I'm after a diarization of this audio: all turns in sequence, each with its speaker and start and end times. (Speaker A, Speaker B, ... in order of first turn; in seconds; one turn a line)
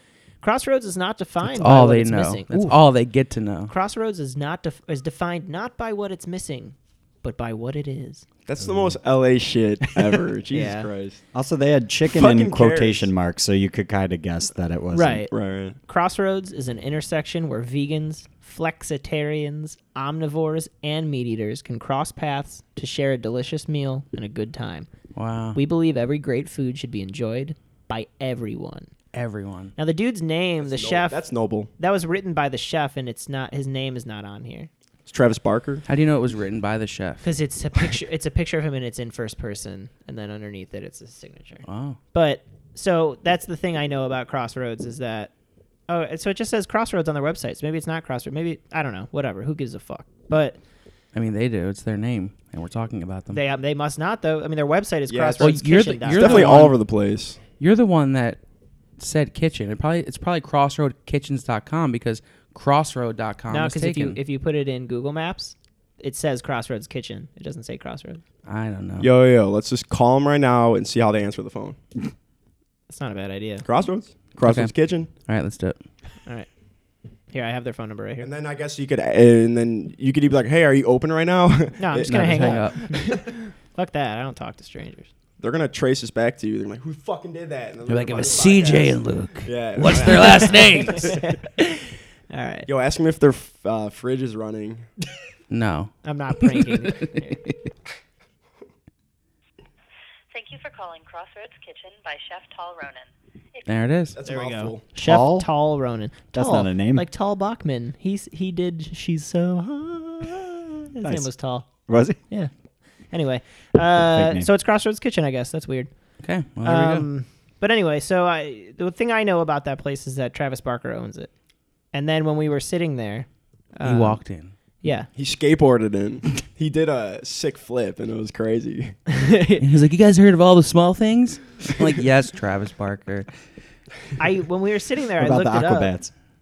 Speaker A: 0.4-2.8
Speaker B: 1.5-3.7
Speaker A: 3.7-8.3
Speaker C: 8.5-11.2
Speaker A: 10.5-10.9
Speaker D: 11.3-15.2
Speaker C: 12.1-13.1
Speaker A: 14.9-24.9
Speaker C: 15.3-15.8
Speaker B: 25.1-25.6
Speaker A: 25.5-28.9
Speaker B: 29.1-29.7
Speaker A: 29.8-31.2
Speaker C: 30.6-31.7
Speaker A: 31.8-34.7
Speaker C: 35.1-35.9
Speaker B: 35.9-37.3
Speaker A: 37.2-45.3
Speaker B: 41.7-42.0
Speaker A: 45.9-50.6
Speaker B: 51.1-53.4
Speaker A: 53.3-56.5
Speaker C: 55.1-57.4
Speaker B: 55.4-56.8
Speaker B: 57.6-58.4
Speaker B: 59.0-64.2
Speaker A: 63.5-68.2
Speaker B: 68.5-69.1
Speaker C: 69.0-71.8
Speaker A: 72.9-73.7
Speaker C: 73.6-75.1
Speaker B: 74.4-75.8
Speaker A: 77.3-78.3
Speaker C: 78.2-83.4
Speaker A: 81.8-85.1
Speaker B: 82.0-82.9
Speaker C: 85.4-91.2
Speaker B: 87.9-91.2
Speaker A: 90.0-92.7
Speaker C: 92.7-94.9
Speaker B: 95.5-97.6
Speaker A: 96.0-97.4
Speaker E: 100.3-103.6
Speaker B: 103.7-104.2
Speaker C: 104.1-104.8
Speaker A: 104.3-112.5
Speaker D: 105.0-105.5
Speaker D: 106.3-107.1
Speaker D: 111.0-111.3
Speaker D: 111.9-112.2
Speaker A: 113.1-115.9
Speaker D: 114.0-114.5
Speaker B: 116.2-117.1
Speaker A: 116.6-121.3
Speaker A: 121.9-124.2
Speaker B: 123.8-124.5
Speaker A: 124.8-125.1
Speaker C: 125.2-129.0
Speaker A: 129.1-129.6
Speaker B: 129.6-133.4
Speaker A: 134.2-135.9
Speaker D: 135.2-136.1